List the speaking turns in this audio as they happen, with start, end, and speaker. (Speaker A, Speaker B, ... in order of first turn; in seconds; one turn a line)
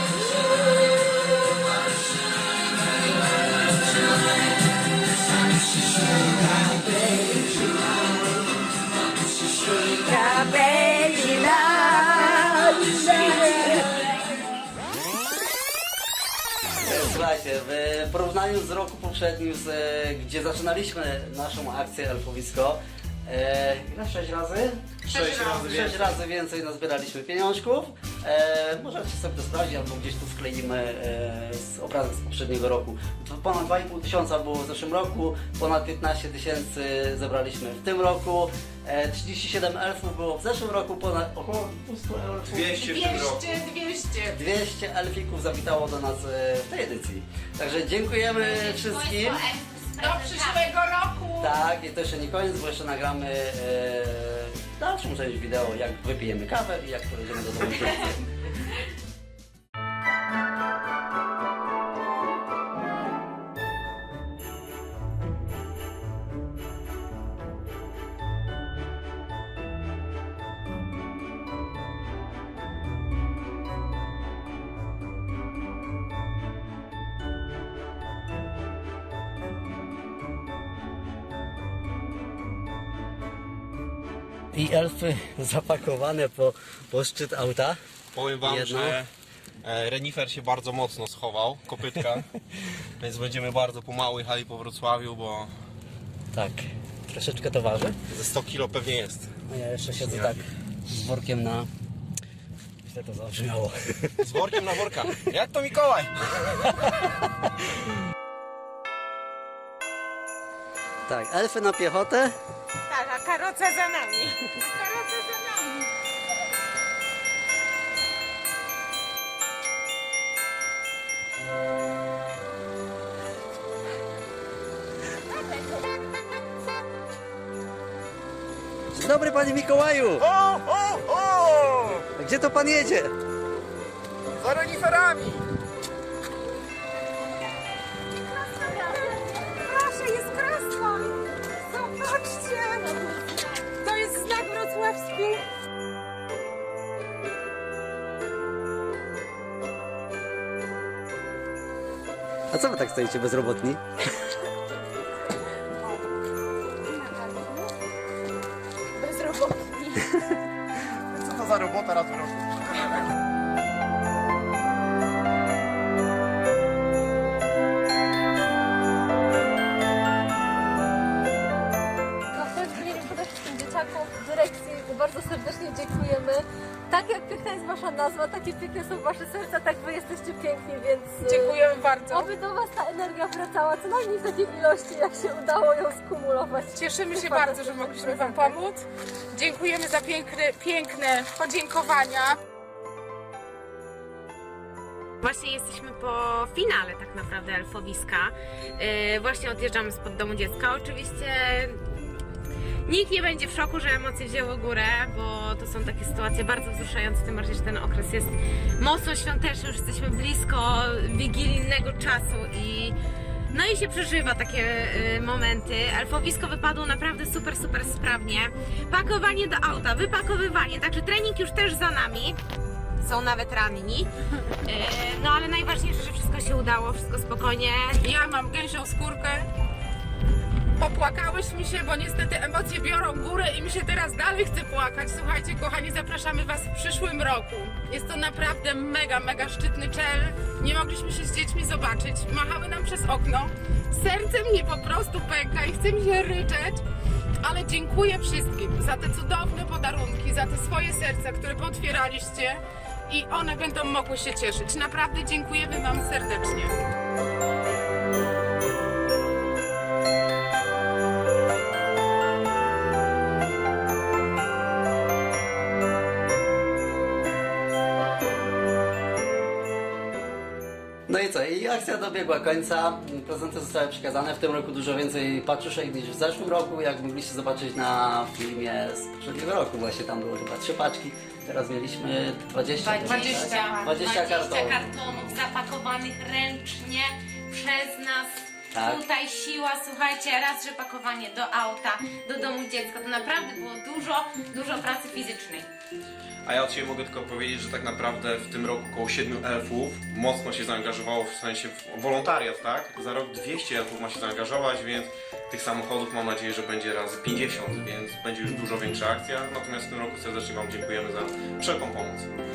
Speaker A: 9.8-13.8
Speaker A: 16.8-43.1
Speaker B: 25.0-26.2
Speaker C: 25.2-25.6
Speaker B: 42.5-43.5
Speaker C: 42.9-44.4
Speaker A: 44.3-49.4
Speaker D: 48.3-50.7
Speaker C: 50.0-51.5
Speaker A: 51.4-58.2
Speaker A: 84.5-87.8
Speaker B: 88.1-89.1
Speaker A: 88.4-89.0
Speaker B: 89.6-92.3
Speaker B: 93.0-95.5
Speaker A: 96.3-98.0
Speaker B: 98.1-99.3
Speaker A: 99.5-101.7
Speaker B: 100.0-100.4
Speaker A: 102.8-105.1
Speaker B: 104.2-106.3
Speaker A: 106.5-106.9
Speaker A: 111.1-112.3
Speaker D: 112.9-114.5
Speaker C: 114.6-115.8
Speaker A: 128.9-130.3
Speaker B: 130.2-132.0
Speaker A: 132.1-133.1
Speaker B: 134.4-135.5
Speaker C: 138.5-141.1
Speaker C: 141.7-143.0
Speaker C: 143.7-145.4
Speaker A: 152.5-153.8
Speaker D: 157.1-157.5
Speaker D: 159.0-159.9
Speaker B: 161.1-162.4
Speaker E: 172.3-188.6
Speaker C: 181.2-182.3
Speaker C: 186.7-192.4
Speaker D: 195.2-201.8
Speaker D: 202.9-213.0
Speaker D: 213.5-222.4
Speaker D: 223.0-228.1
Speaker C: 228.0-229.5
Speaker C: 230.8-246.8
Speaker C: 247.4-256.7
Speaker A: 271.1-285.3
Speaker D: 282.8-295.7
Speaker C: 283.1-283.8
Speaker A: 288.7-289.0
Speaker B: 296.4-312.3